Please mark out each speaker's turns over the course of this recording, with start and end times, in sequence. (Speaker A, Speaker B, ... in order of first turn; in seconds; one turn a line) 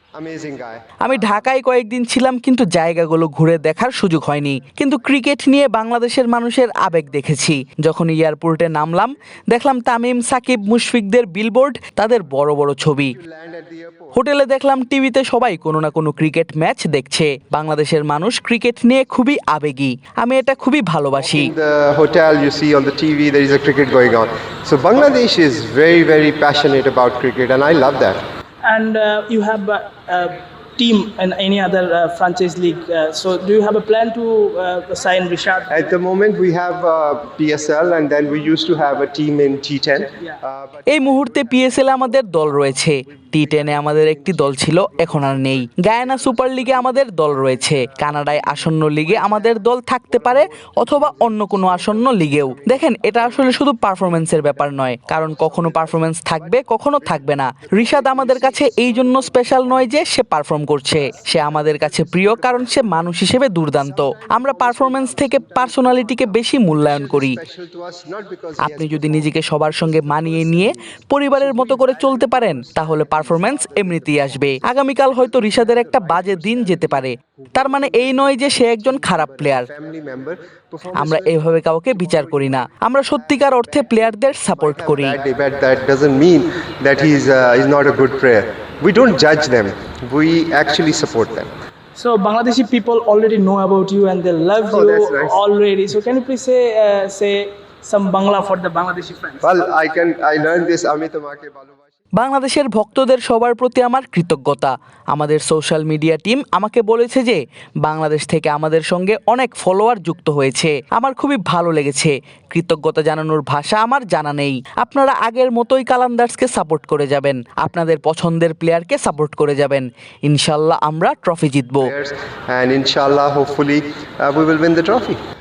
Speaker A: 0.1-0.9
Speaker B: 1.0-13.2
Speaker A: 13.2-14.1
Speaker B: 14.1-21.5
Speaker A: 21.2-28.2
Speaker C: 28.6-35.9
Speaker A: 35.7-40.8
Speaker B: 40.9-67.4
Speaker A: 66.8-69.3
Speaker B: 68.6-79.7
Speaker A: 70.3-70.7
Speaker A: 71.7-73.7
Speaker A: 76.2-76.8
Speaker A: 79.3-81.3
Speaker B: 81.0-85.2
Speaker A: 84.6-91.5
Speaker C: 92.0-99.5
Speaker A: 94.7-95.4
Speaker A: 99.4-101.8
Speaker B: 102.2-121.9
Speaker A: 121.8-125.2